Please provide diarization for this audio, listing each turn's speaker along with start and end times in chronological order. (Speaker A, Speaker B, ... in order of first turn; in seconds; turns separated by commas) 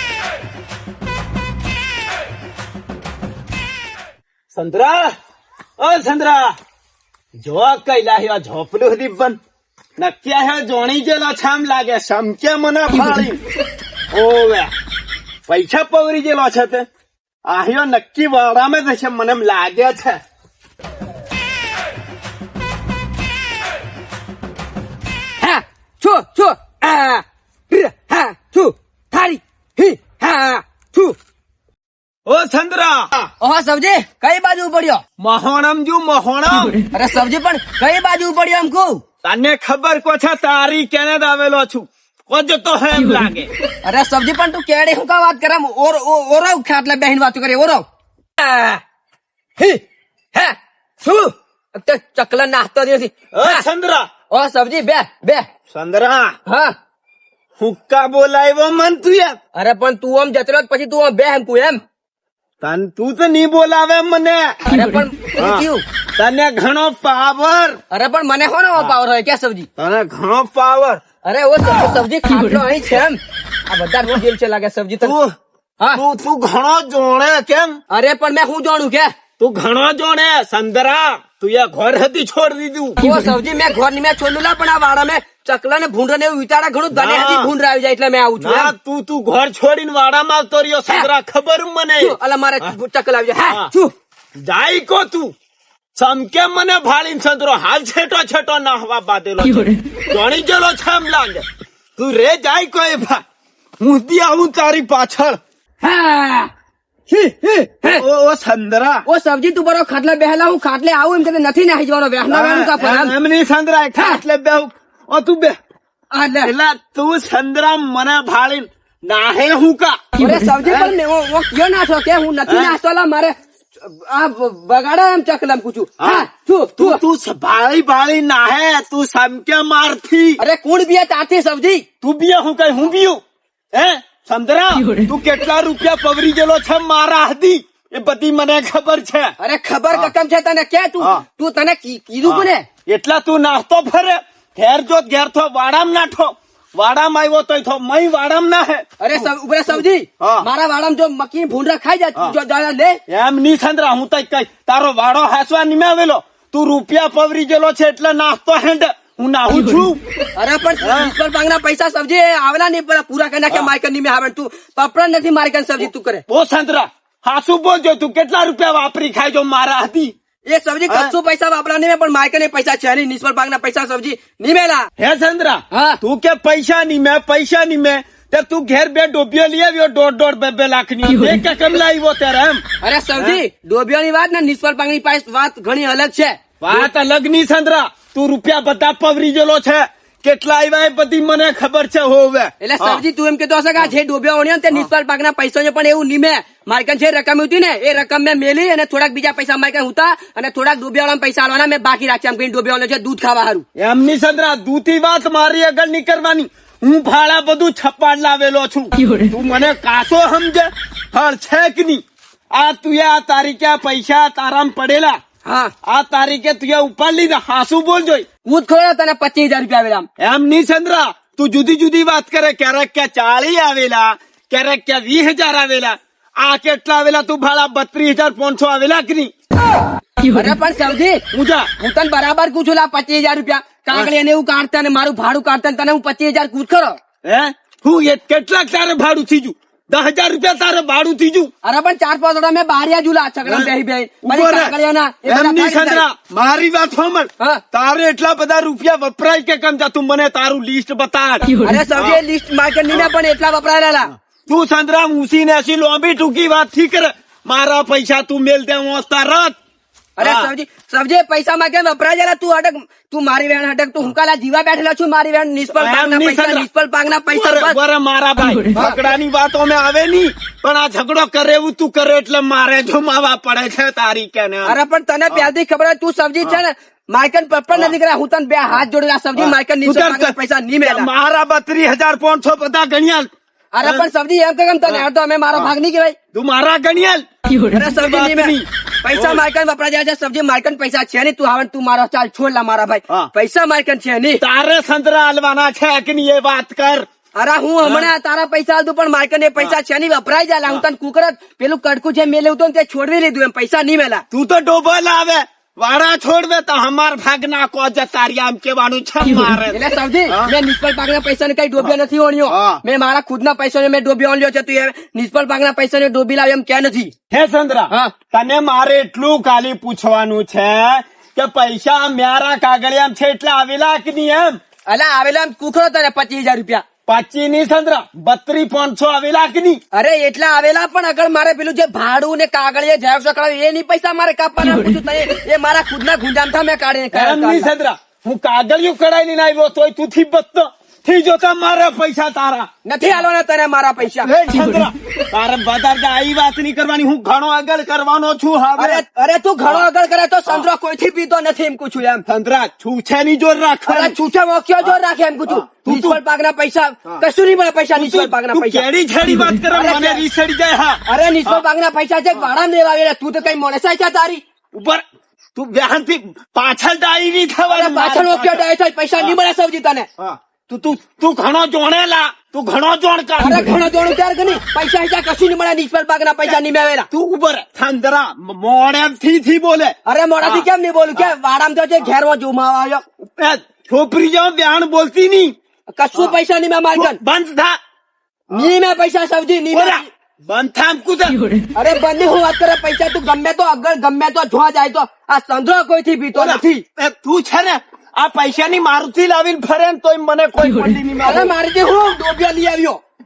Speaker A: 4.5-5.1, Speaker A: 5.8-6.5, Speaker A: 7.4-9.4, Speaker A: 10.0-13.4, Speaker A: 14.1-14.7, Speaker A: 15.5-16.9, Speaker A: 17.5-20.2, Speaker B: 25.4-31.2, Speaker A: 32.3-33.3, Speaker B: 33.4-35.0, Speaker A: 35.2-36.8, Speaker B: 36.9-39.0, Speaker A: 39.2-43.5, Speaker B: 43.8-47.9, Speaker B: 48.4-48.8, Speaker B: 50.3-53.7, Speaker A: 53.3-54.1, Speaker B: 54.3-55.5, Speaker A: 55.7-56.4, Speaker B: 56.5-56.7, Speaker A: 57.6-59.4, Speaker B: 59.5-61.8, Speaker A: 62.6-64.7, Speaker B: 64.7-65.8, Speaker A: 65.4-67.8, Speaker B: 67.9-69.7, Speaker A: 69.8-71.0, Speaker B: 71.2-75.2, Speaker A: 75.0-75.3, Speaker A: 75.9-77.8, Speaker B: 77.9-79.1, Speaker A: 79.4-83.1, Speaker B: 83.0-88.7, Speaker A: 86.9-87.5, Speaker A: 88.4-92.7, Speaker B: 92.0-93.9, Speaker A: 93.5-93.7, Speaker A: 94.4-95.3, Speaker A: 96.0-101.5, Speaker A: 102.0-103.2, Speaker A: 103.8-105.4, Speaker B: 105.8-106.5, Speaker B: 107.1-108.0, Speaker A: 107.9-109.1, Speaker B: 109.1-113.1, Speaker A: 112.3-115.6, Speaker B: 114.0-114.2, Speaker B: 116.1-116.5, Speaker A: 116.4-120.0, Speaker B: 120.2-127.0, Speaker A: 120.6-120.9, Speaker A: 122.5-122.7, Speaker A: 126.0-130.4, Speaker B: 130.4-131.8, Speaker A: 132.0-133.2, Speaker A: 133.7-139.4, Speaker B: 139.4-142.7, Speaker A: 142.2-148.9, Speaker B: 149.0-153.0, Speaker A: 150.2-150.5, Speaker A: 153.1-160.0, Speaker B: 160.4-166.2, Speaker A: 160.8-161.1, Speaker A: 165.8-170.1, Speaker B: 170.5-174.9, Speaker A: 175.0-182.7, Speaker B: 175.7-176.0, Speaker B: 182.8-186.9, Speaker A: 186.6-193.0, Speaker B: 192.6-203.7, Speaker A: 203.8-215.2, Speaker B: 215.4-215.7, Speaker A: 215.8-218.3, Speaker B: 218.4-220.1, Speaker A: 220.2-229.3, Speaker B: 230.2-231.2, Speaker A: 231.3-231.7, Speaker B: 231.8-237.0, Speaker A: 237.2-241.5, Speaker B: 241.6-246.0, Speaker A: 243.4-243.7, Speaker A: 244.2-244.7, Speaker A: 245.3-252.2, Speaker B: 251.6-254.1, Speaker A: 254.5-259.6, Speaker B: 260.2-267.8, Speaker A: 260.2-260.5, Speaker A: 265.8-266.7, Speaker A: 267.3-274.8, Speaker B: 268.7-269.0, Speaker B: 274.7-281.1, Speaker A: 279.4-283.3, Speaker B: 283.7-286.2, Speaker A: 286.3-287.2, Speaker B: 287.5-294.4, Speaker A: 287.8-289.4, Speaker A: 294.4-297.1, Speaker B: 297.4-304.2, Speaker A: 297.8-298.1, Speaker A: 304.3-310.5, Speaker B: 309.7-317.1, Speaker A: 312.5-312.8, Speaker A: 317.3-324.6, Speaker B: 324.9-326.9, Speaker A: 327.1-329.8, Speaker B: 329.9-337.7, Speaker A: 337.1-342.7, Speaker B: 342.9-344.3, Speaker A: 344.2-349.0, Speaker B: 348.8-352.2, Speaker A: 352.3-354.1, Speaker B: 353.9-358.9, Speaker A: 355.5-356.2, Speaker A: 358.0-361.6, Speaker B: 359.7-360.2, Speaker B: 361.1-364.4, Speaker A: 364.7-365.0, Speaker A: 365.6-368.6, Speaker B: 367.7-370.1, Speaker A: 370.2-373.8, Speaker B: 373.4-377.1, Speaker A: 377.1-381.3, Speaker B: 380.1-383.0, Speaker A: 383.3-385.5, Speaker B: 386.0-387.2, Speaker A: 386.9-387.8, Speaker B: 388.5-390.1, Speaker A: 389.7-391.5, Speaker B: 391.8-396.8, Speaker A: 396.4-401.5, Speaker B: 401.2-403.0